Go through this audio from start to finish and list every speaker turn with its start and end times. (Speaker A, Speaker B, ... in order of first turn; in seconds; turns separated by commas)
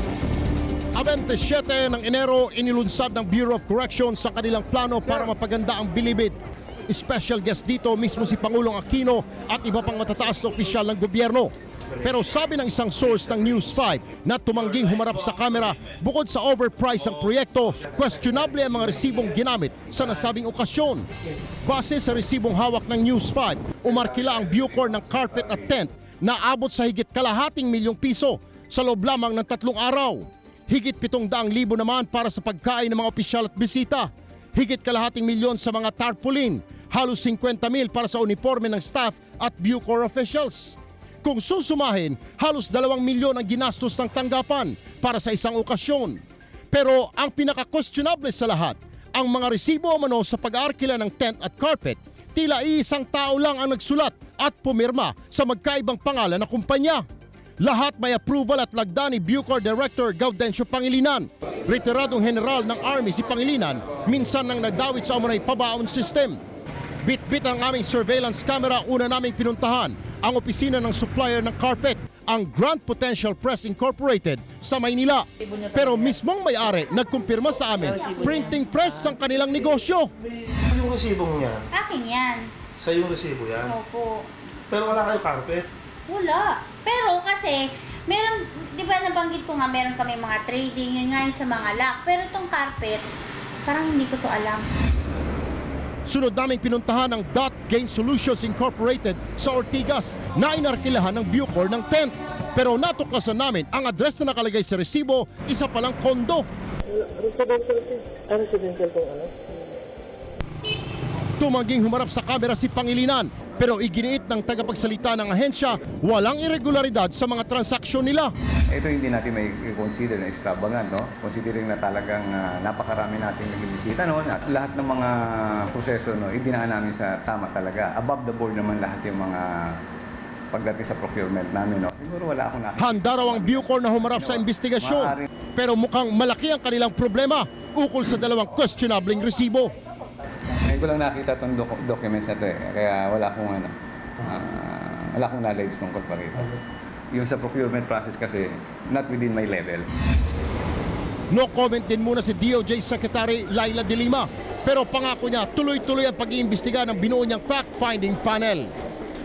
Speaker A: 0.9-6.3, Speaker A: 6.9-21.1, Speaker B: 13.1-13.7, Speaker B: 14.7-15.6, Speaker B: 17.0-17.3, Speaker B: 18.0-18.8, Speaker A: 21.6-46.2, Speaker C: 24.6-25.2, Speaker A: 46.7-57.0, Speaker A: 57.6-66.4, Speaker A: 67.0-80.1, Speaker B: 80.2-81.7, Speaker D: 81.7-82.5, Speaker B: 82.8-83.7, Speaker D: 83.6-84.3, Speaker B: 84.7-85.7, Speaker D: 86.1-93.0, Speaker D: 93.6-94.7, Speaker A: 96.1-106.5, Speaker E: 106.9-109.7, Speaker A: 111.4-118.3, Speaker C: 118.7-129.8, Speaker C: 130.5-135.2, Speaker A: 132.8-139.7, Speaker C: 140.6-146.6, Speaker C: 147.1-149.9, Speaker A: 151.3-158.7